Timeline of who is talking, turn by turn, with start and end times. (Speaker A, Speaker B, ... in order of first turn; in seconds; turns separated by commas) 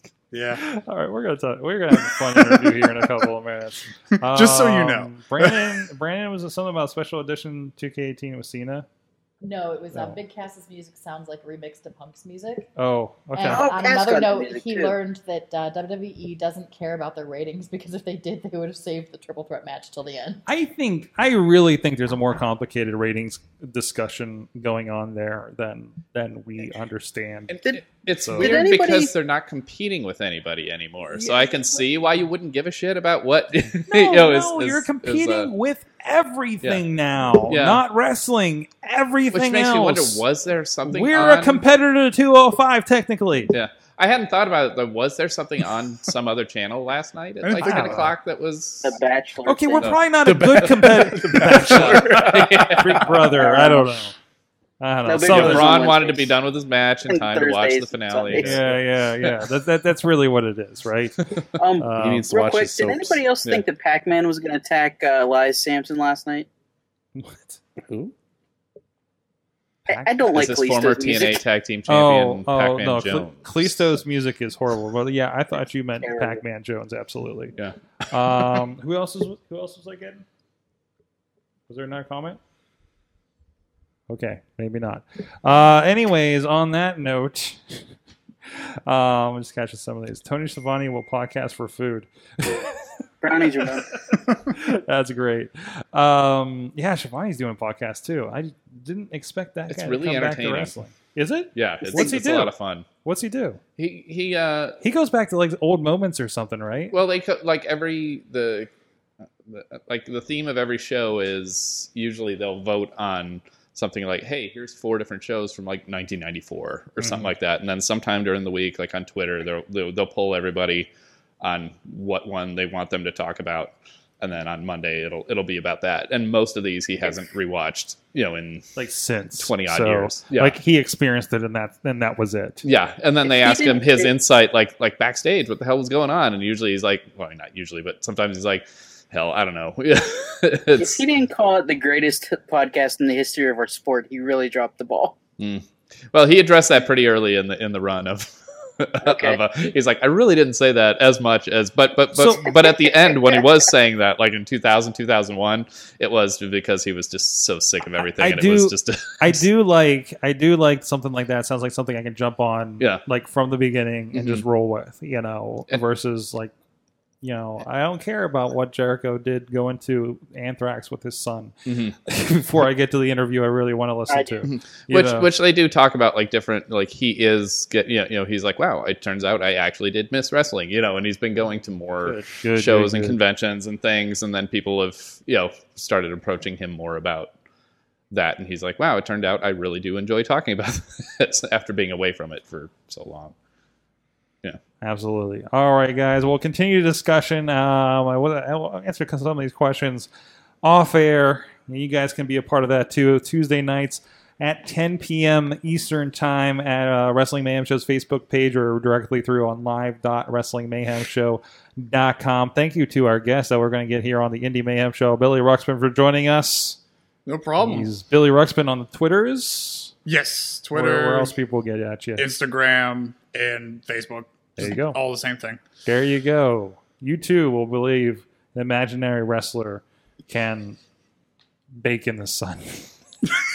Speaker A: 0.3-0.6, Speaker B: 0.5-8.8, Speaker A: 2.0-3.0, Speaker A: 4.2-5.8, Speaker C: 9.4-12.7, Speaker B: 9.9-10.2, Speaker B: 12.8-13.7, Speaker C: 13.3-20.4, Speaker D: 13.5-14.9, Speaker B: 20.4-27.6, Speaker E: 27.5-35.5, Speaker B: 28.2-28.5, Speaker D: 28.4-29.1, Speaker B: 33.9-40.2, Speaker E: 37.5-37.8, Speaker E: 39.3-41.6, Speaker B: 40.9-43.5, Speaker E: 43.5-49.0, Speaker A: 47.4-48.1, Speaker B: 47.6-48.1, Speaker D: 48.8-49.9, Speaker B: 49.5-54.1, Speaker F: 50.2-53.0, Speaker E: 51.5-53.1, Speaker D: 53.4-53.9, Speaker B: 54.8-55.8, Speaker D: 55.0-56.4, Speaker E: 55.2-59.2, Speaker D: 57.1-58.8, Speaker B: 58.4-62.3, Speaker D: 61.5-66.5, Speaker F: 62.0-63.2, Speaker B: 67.1-67.6, Speaker F: 67.8-68.1, Speaker B: 69.8-70.2, Speaker D: 69.9-71.4, Speaker E: 70.3-74.0, Speaker B: 71.9-77.6, Speaker D: 76.0-76.4, Speaker B: 78.1-80.2, Speaker B: 81.7-82.4, Speaker B: 84.1-87.9, Speaker B: 88.5-92.9, Speaker D: 93.2-94.0, Speaker B: 93.9-103.6, Speaker E: 99.7-100.7, Speaker E: 101.5-102.8, Speaker E: 103.8-104.8, Speaker B: 104.8-106.9, Speaker E: 106.9-108.7, Speaker E: 109.5-120.9, Speaker B: 117.0-117.3, Speaker E: 121.4-128.8, Speaker B: 128.8-132.6, Speaker E: 129.4-130.6, Speaker E: 132.6-141.0, Speaker D: 133.2-134.1, Speaker D: 140.8-145.2, Speaker E: 145.4-159.4, Speaker D: 149.0-149.4, Speaker B: 152.1-152.4, Speaker D: 152.3-153.7, Speaker B: 158.2-166.5, Speaker E: 164.1-164.4, Speaker B: 167.2-171.5, Speaker E: 171.7-172.0, Speaker B: 172.1-175.3, Speaker D: 174.1-174.4, Speaker E: 174.4-187.3, Speaker B: 182.0-183.2, Speaker E: 188.1-193.3, Speaker B: 194.8-200.1, Speaker B: 200.6-216.8, Speaker A: 217.2-217.9, Speaker B: 217.6-219.9, Speaker A: 220.1-221.3, Speaker B: 220.7-222.3, Speaker A: 222.2-225.6, Speaker B: 224.6-225.0, Speaker B: 225.8-230.8, Speaker B: 231.8-232.9